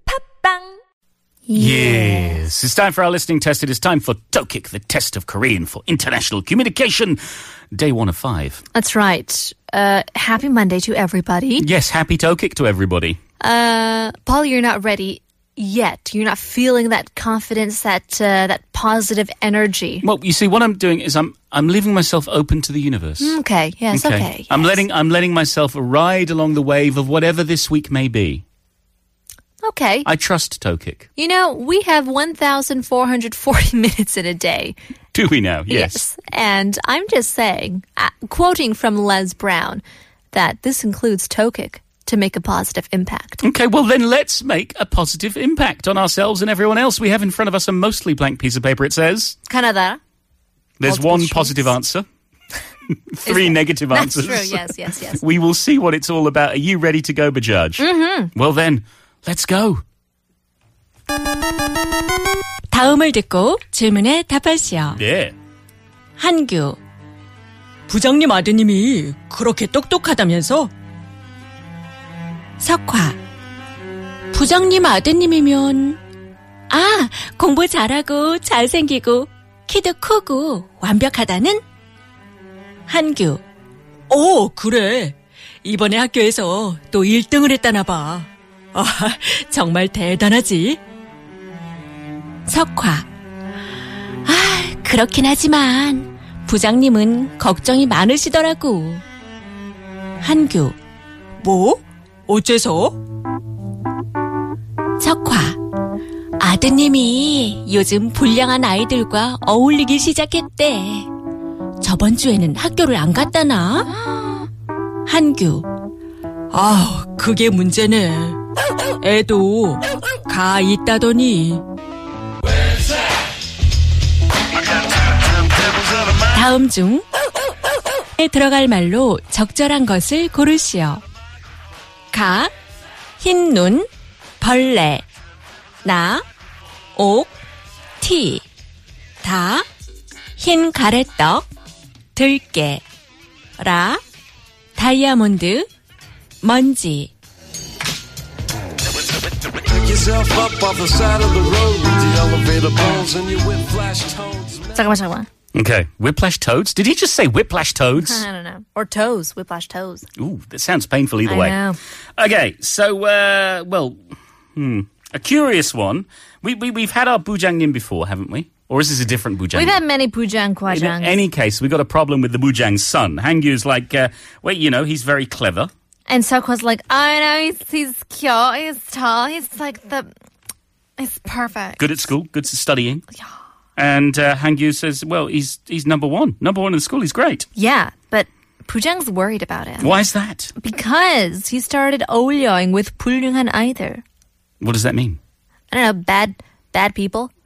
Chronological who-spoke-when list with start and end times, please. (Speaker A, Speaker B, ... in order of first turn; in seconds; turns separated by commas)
Speaker A: 1.5-2.4, Speaker B: 1.5-7.2, Speaker B: 7.7-8.6, Speaker A: 8.7-11.7, Speaker B: 11.6-13.2, Speaker A: 13.4-20.1, Speaker B: 20.0-23.4, Speaker A: 23.2-24.8, Speaker B: 23.9-28.4, Speaker A: 29.6-30.1, Speaker B: 30.1-31.1, Speaker A: 31.2-34.8, Speaker B: 35.1-36.0, Speaker A: 35.7-43.4, Speaker B: 43.4-49.4, Speaker A: 49.5-50.0, Speaker B: 50.8-52.1, Speaker A: 50.9-51.8, Speaker B: 52.9-57.8, Speaker A: 53.2-55.2, Speaker A: 57.8-58.3, Speaker B: 58.4-59.8, Speaker C: 62.7-65.0, Speaker B: 65.0-65.3, Speaker C: 66.2-66.8, Speaker C: 67.9-70.7, Speaker C: 72.6-73.2, Speaker C: 74.3-76.0, Speaker C: 76.7-81.6, Speaker C: 82.9-83.4, Speaker C: 84.1-90.8, Speaker C: 92.5-93.1, Speaker C: 94.3-99.0, Speaker C: 100.2-100.8, Speaker C: 101.4-103.0, Speaker C: 105.0-105.6, Speaker C: 106.4-111.1, Speaker C: 111.8-113.9, Speaker C: 115.1-115.7, Speaker C: 116.5-118.4, Speaker C: 119.0-121.6, Speaker C: 126.2-127.0, Speaker C: 128.2-131.0, Speaker C: 132.1-132.5, Speaker C: 133.2-133.9, Speaker C: 134.4-135.1, Speaker C: 135.8-136.2, Speaker C: 137.0-137.3, Speaker C: 138.0-138.4, Speaker C: 139.2-139.7, Speaker C: 140.4-141.5, Speaker C: 142.2-142.8, Speaker C: 143.6-144.0, Speaker C: 144.8-145.7, Speaker C: 146.4-147.1, Speaker D: 149.7-154.7, Speaker A: 154.7-155.3, Speaker B: 155.6-158.2, Speaker A: 157.9-160.1, Speaker B: 160.2-161.6, Speaker A: 161.2-161.8, Speaker B: 162.2-164.0, Speaker B: 164.6-169.8, Speaker A: 169.5-171.2, Speaker B: 170.7-175.7, Speaker A: 176.1-180.1, Speaker A: 181.0-182.0, Speaker B: 181.8-183.0, Speaker B: 183.8-187.5, Speaker A: 187.6-190.0, Speaker B: 189.8-190.5, Speaker A: 190.6-194.0, Speaker B: 194.6-195.2, Speaker A: 195.7-197.3